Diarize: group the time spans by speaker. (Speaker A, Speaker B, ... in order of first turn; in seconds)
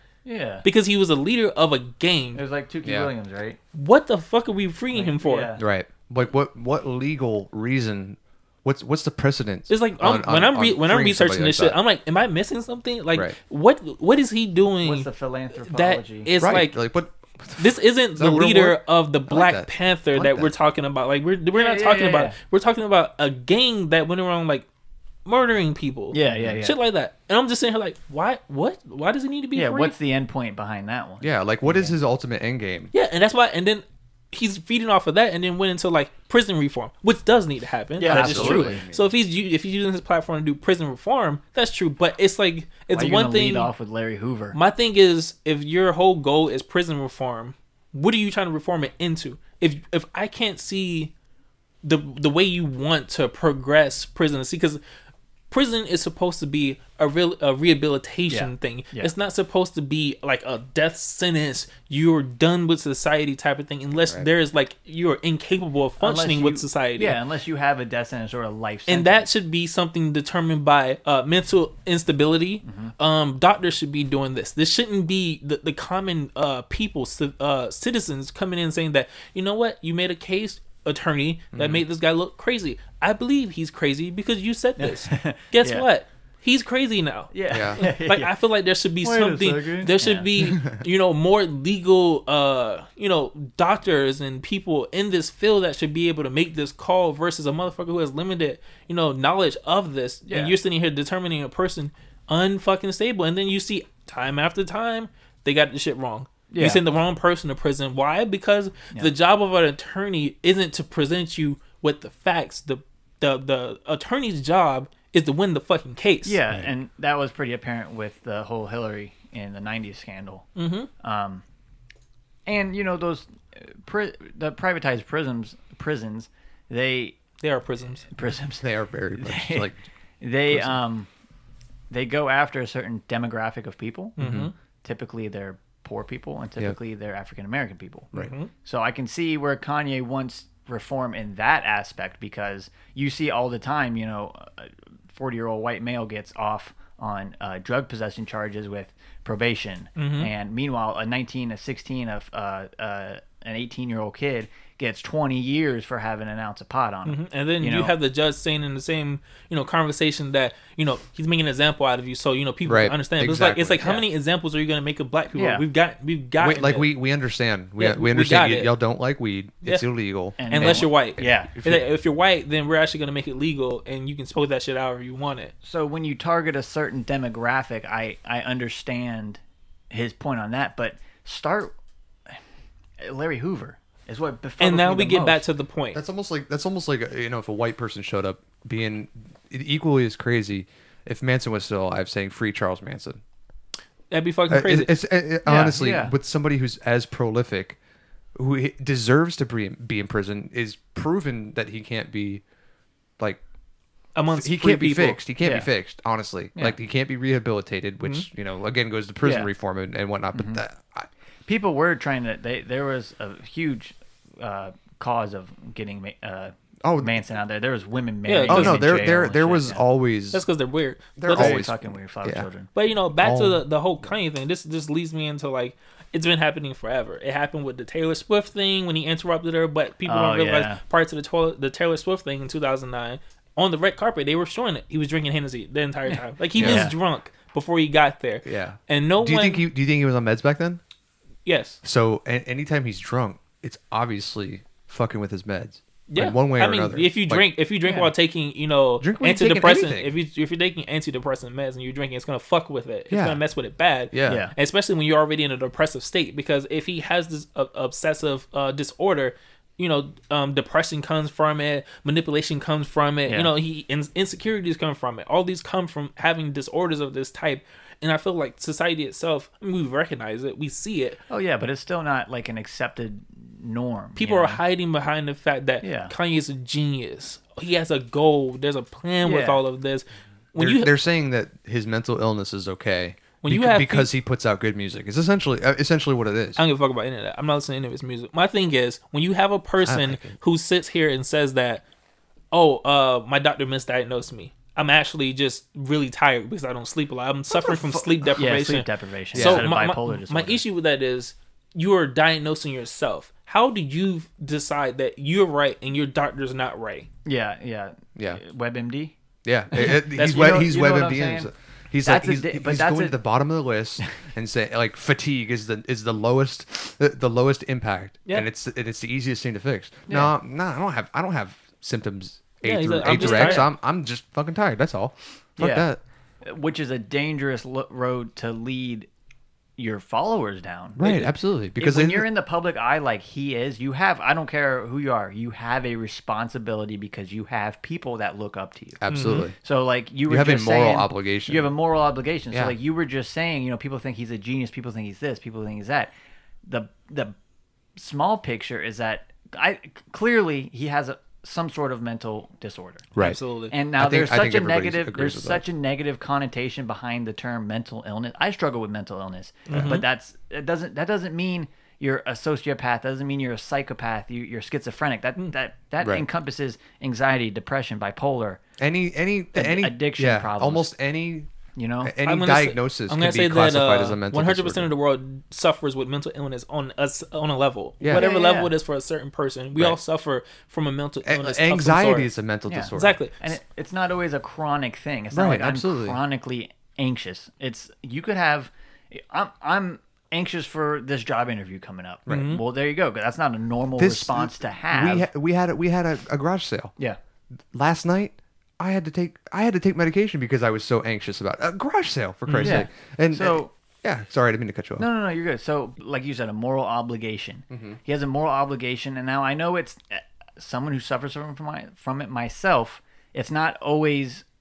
Speaker A: 0.2-0.6, 2.3-3.6, 4.9-5.6, 14.8-16.3, 21.5-22.4, 26.1-26.8, 29.5-31.9, 38.0-38.8, 42.9-44.6, 58.3-59.1, 66.0-69.3, 72.6-72.9, 84.8-85.8, 87.3-88.3, 89.0-90.6, 100.3-100.5, 106.5-106.8, 116.2-121.4, 122.5-127.2, 128.1-131.1, 131.9-134.3, 134.8-157.9, 165.3-165.6, 170.4-171.5, 175.6-179.4, 179.9-181.7, 183.0-185.4, 195.4-196.1, 205.4-205.7, 209.2-209.5, 210.3-210.6, 211.5-219.8, 221.3-222.7, 230.1-230.8, 236.1-236.9, 247.8-248.1, 254.3-254.5, 271.3-274.6, 275.8-276.1, 279.2-279.6, 298.4-300.6, 307.2-309.1, 309.7-311.5, 312.0-313.3, 314.0-314.3, 320.1-320.3, 323.0-323.7, 325.6-325.9, 326.4-329.1, 329.8-346.1, 346.6-347.3, 348.0-353.2, 353.7-368.6, 369.5-370.9, 371.7-372.1, 378.1-378.7, 382.7-395.3, 402.6-403.7, 405.0-414.4
Speaker B: 0.6-2.4, 3.7-5.5, 9.7-15.1, 15.6-16.8, 17.6-24.6, 25.2-29.9, 32.9-43.7, 44.5-51.1, 51.8-54.8, 55.5-67.2, 68.9-116.4, 120.6-120.9, 127.4-128.1, 134.2-134.5, 138.1-138.5, 150.0-150.3, 157.1-166.9, 167.8-168.7, 170.4-175.5, 184.6-186.0, 194.1-194.9, 204.1-205.2, 208.0-208.3, 218.2-218.8, 220.3-221.6, 222.7-239.7, 241.4-241.8, 246.1-271.2, 274.1-280.9, 283.4-284.1, 286.6-291.8, 292.5-307.1, 310.0-310.6, 322.6-323.6, 339.1-339.5, 353.2-353.7, 359.7-360.0, 372.2-382.3, 382.9-383.4, 392.3-392.6, 402.5-402.9
Speaker C: 2.8-3.1, 5.6-11.8, 16.4-20.5, 31.2-32.9, 38.0-39.1, 81.5-81.8, 87.5-87.8, 128.6-129.8, 130.5-130.8, 134.2-134.5, 162.7-163.8, 166.4-171.8, 185.9-193.2, 194.5-197.8, 198.3-202.4, 204.3-211.1, 216.8-217.1, 218.5-220.4, 221.2-222.5, 223.2-223.6, 236.6-236.9, 238.4-240.8, 241.8-247.4, 249.0-250.1, 253.1-253.4, 254.1-254.4, 280.6-286.6, 289.8-290.4, 297.5-298.4, 299.3-299.7, 308.1-308.4, 309.4-326.0, 331.0-332.3, 339.0-339.6, 340.2-341.7, 353.9-355.6, 368.8-371.5, 372.0-374.9, 381.2-383.2, 385.3-386.2, 394.0-396.9, 397.7-405.1, 407.7-408.0